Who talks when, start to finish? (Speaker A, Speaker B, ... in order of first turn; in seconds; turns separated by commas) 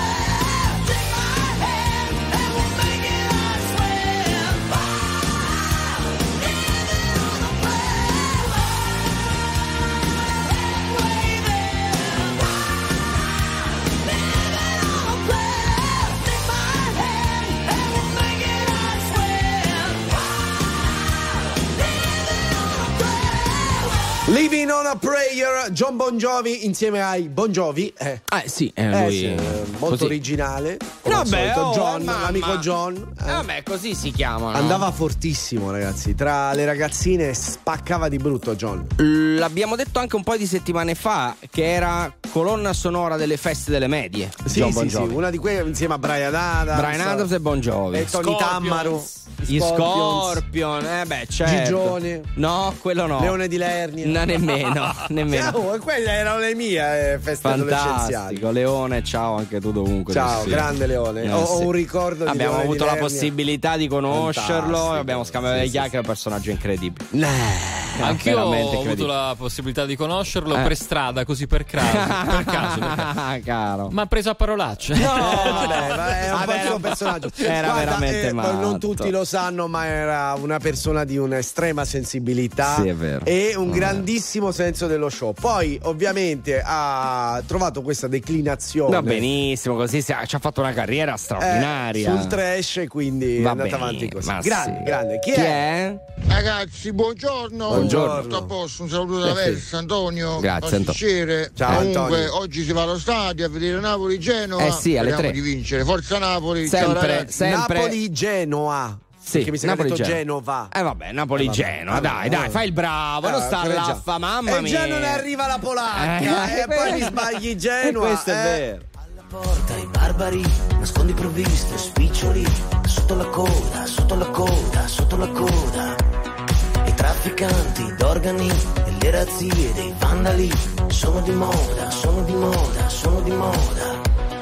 Speaker A: 24.2-28.2, Speaker B: 28.3-30.1, Speaker A: 28.9-33.5, Speaker B: 31.0-32.7, Speaker B: 33.3-34.9, Speaker A: 34.5-38.9, Speaker B: 39.0-45.2, Speaker A: 44.4-47.3, Speaker B: 46.7-48.9, Speaker A: 47.9-50.4, Speaker B: 49.5-53.4, Speaker A: 51.4-52.3, Speaker A: 53.2-54.3, Speaker B: 54.0-55.6, Speaker A: 55.3-58.4, Speaker B: 57.4-60.7, Speaker A: 60.1-63.3, Speaker B: 61.2-61.7, Speaker B: 62.2-67.0, Speaker A: 64.1-65.9, Speaker A: 67.1-68.0, Speaker C: 68.0-73.1, Speaker B: 68.0-69.1, Speaker B: 71.8-73.9, Speaker C: 73.9-75.8, Speaker A: 75.0-89.3, Speaker B: 75.0-79.1, Speaker B: 82.7-84.0, Speaker B: 88.9-92.3, Speaker A: 91.4-95.6, Speaker B: 93.4-96.0, Speaker D: 96.3-107.3, Speaker B: 97.7-98.3, Speaker A: 97.7-98.5, Speaker B: 99.2-99.6, Speaker B: 100.4-101.0, Speaker A: 101.6-102.3, Speaker B: 104.6-105.4, Speaker B: 106.6-108.0, Speaker A: 107.3-110.7, Speaker B: 109.2-110.2, Speaker B: 110.7-115.3, Speaker A: 111.3-112.6, Speaker A: 113.2-118.6, Speaker B: 115.9-117.3, Speaker B: 117.8-118.8, Speaker E: 119.2-126.0, Speaker E: 126.8-134.0